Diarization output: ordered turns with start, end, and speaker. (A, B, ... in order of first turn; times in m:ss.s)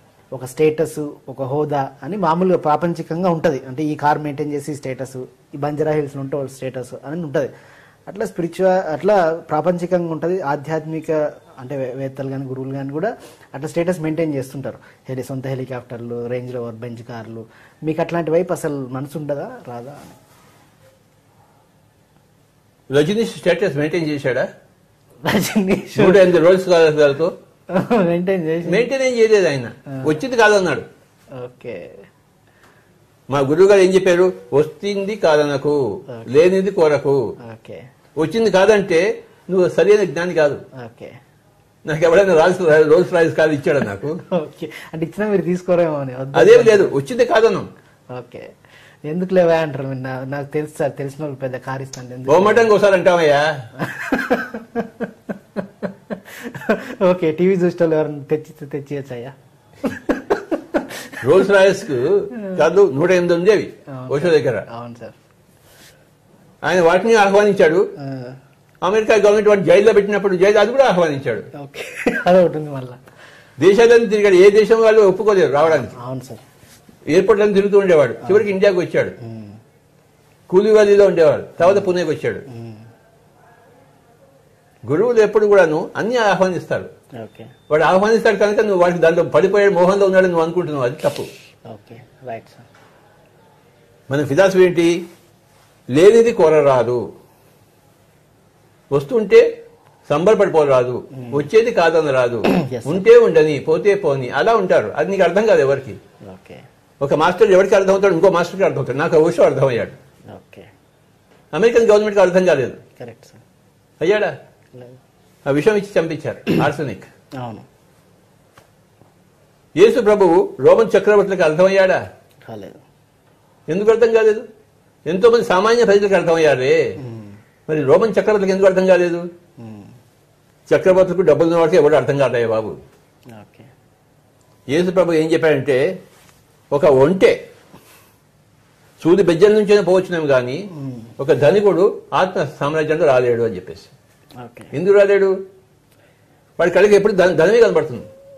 0:00.3-0:07.5 A
0:08.1-0:20.2 A
0:22.9-0:24.5 B
0:25.2-0:26.3 A
0:26.0-0:27.3 B
0:27.7-0:28.9 A
0:28.6-0:30.9 B
0:31.4-0:31.9 A
0:33.3-0:37.2 B
0:37.4-0:37.8 A
0:38.2-0:40.6 B
0:40.8-0:41.1 A
0:41.8-0:44.2 B
0:44.3-0:46.9 A
0:46.3-0:47.7 B
0:48.1-0:48.5 A
0:49.1-0:52.7 A
0:52.3-0:53.5 B
0:53.8-0:59.3 A
0:59.8-1:01.2 A
1:01.2-1:04.6 B
1:02.4-1:02.6 A
1:04.0-1:05.1 A
1:06.6-1:07.8 B
1:08.0-1:08.4 A
1:08.8-1:11.5 B
1:11.6-1:13.0 A
1:13.6-1:15.9 B
1:15.7-1:16.4 A
1:17.1-1:19.1 B
1:19.2-1:19.6 A
1:20.5-1:22.4 B
1:21.6-1:21.9 A
1:22.5-1:22.8 A
1:24.9-1:26.9 B
1:27.2-1:27.5 A
1:27.7-1:31.3 B
1:31.7-1:32.6 A
1:34.1-1:35.0 B
1:35.9-1:37.0 B
1:38.9-1:39.4 B
1:40.1-1:46.0 B
1:41.2-1:41.5 A
1:42.5-1:43.0 A
1:46.2-1:46.6 A
1:47.0-1:50.0 B
1:50.3-1:50.7 A
1:51.5-1:52.8 B
1:53.0-1:53.4 A
1:54.0-1:54.3 B
1:55.4-1:57.1 B
1:57.4-1:57.6 A
1:59.8-2:02.0 B
2:02.5-2:02.8 A
2:03.7-2:04.4 B
2:05.1-2:06.8 B
2:07.0-2:07.4 A
2:07.7-2:09.3 B
2:09.6-2:09.9 A
2:10.7-2:12.8 B
2:13.3-2:13.7 A
2:14.7-2:15.8 B
2:16.7-2:17.4 B
2:19.0-2:20.7 B
2:20.8-2:21.1 A
2:21.2-2:23.9 B
2:24.4-2:24.7 A
2:24.7-2:25.4 B
2:26.6-2:28.1 B